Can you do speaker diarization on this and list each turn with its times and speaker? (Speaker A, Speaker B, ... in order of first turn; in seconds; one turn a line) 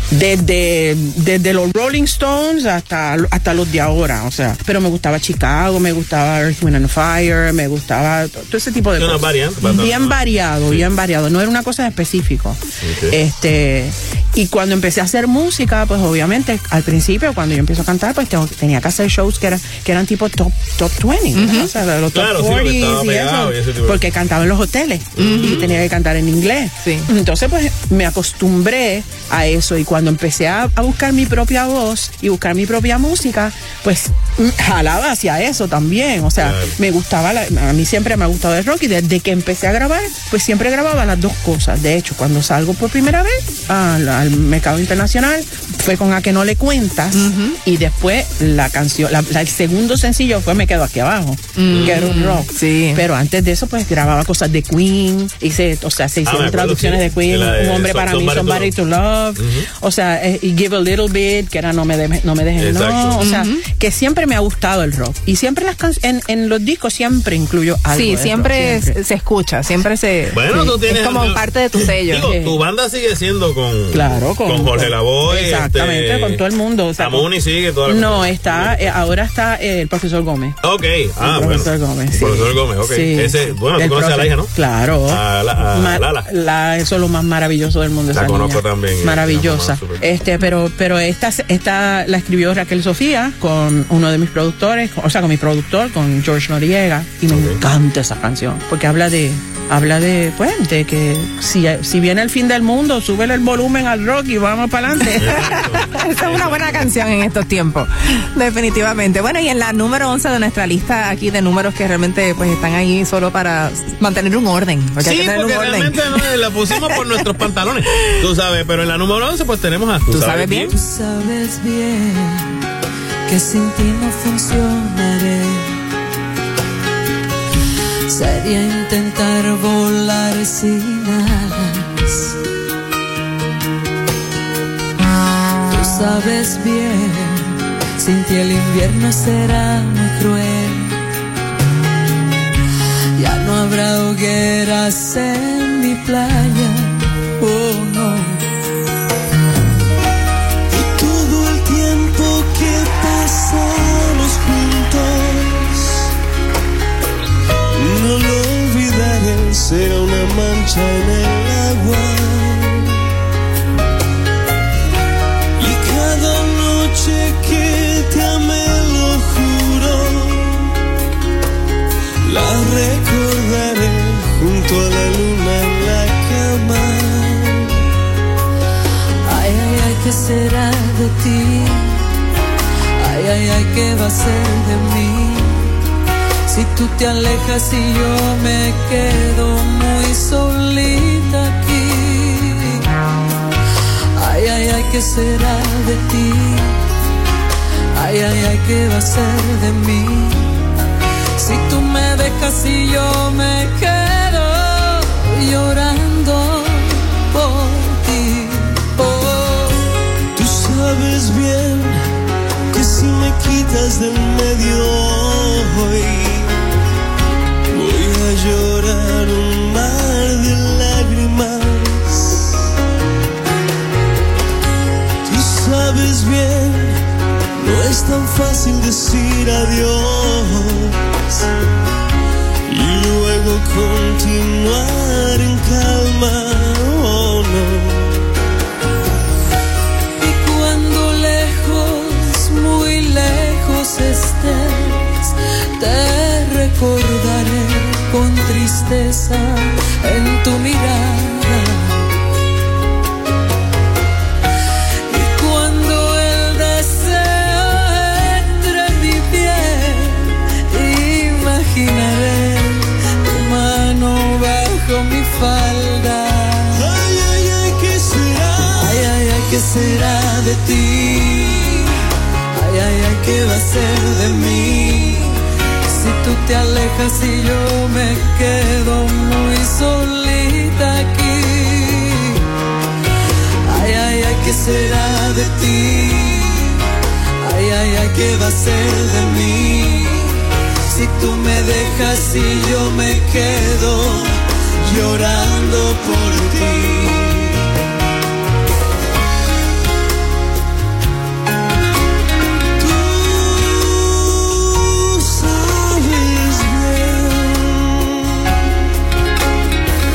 Speaker A: 0.1-69.0
Speaker B: 9.0-10.8
Speaker B: 12.8-13.2
Speaker C: 21.4-21.7
Speaker B: 22.1-24.1
Speaker B: 25.2-25.8
Speaker C: 25.2-25.6
Speaker B: 36.4-36.7
Speaker C: 47.1-47.6
Speaker C: 51.6-53.0
Speaker B: 51.7-52.0
Speaker B: 56.2-58.8
Speaker B: 59.4-59.7
Speaker B: 62.6-63.3
Speaker C: 63.2-63.6
Speaker C: 67.9-72.3
Speaker B: 70.3-76.4
Speaker A: 72.1-72.6
Speaker A: 73.9-77.3
Speaker B: 77.0-79.0
Speaker A: 77.8-80.6
Speaker B: 80.6-84.5
Speaker A: 81.2-105.6
Speaker B: 85.1-86.3
Speaker B: 88.1-90.0
Speaker B: 97.3-97.6
Speaker B: 105.2-106.9
Speaker C: 105.4-116.0
Speaker B: 115.0-120.7
Speaker C: 120.1-120.7
Speaker D: 120.7-122.5
Speaker D: 123.3-125.7
Speaker D: 128.1-132.3
Speaker D: 135.7-141.0
Speaker D: 143.2-148.4
Speaker E: 150.8-155.8
Speaker E: 157.8-162.9
Speaker E: 165.6-170.7
Speaker E: 172.2-177.7
Speaker D: 179.3-182.0
Speaker D: 183.0-185.7
Speaker D: 186.5-192.8
Speaker D: 194.2-196.8
Speaker D: 197.9-200.6
Speaker D: 201.4-209.9
Speaker E: 210.4-212.0
Speaker E: 212.7-216.5
Speaker E: 217.7-222.4
Speaker E: 225.3-227.0
Speaker E: 227.6-231.0
Speaker E: 232.7-238.1
Speaker D: 240.2-251.9
Speaker D: 255.1-266.9
Speaker E: 266.8-269.1
Speaker D: 268.7-271.9
Speaker D: 272.6-275.4
Speaker D: 275.9-282.4
Speaker D: 283.7-286.8
Speaker D: 287.4-290.3
Speaker D: 290.9-296.8
Speaker E: 295.2-295.5
Speaker E: 296.8-297.2
Speaker E: 302.9-304.2
Speaker E: 304.7-307.9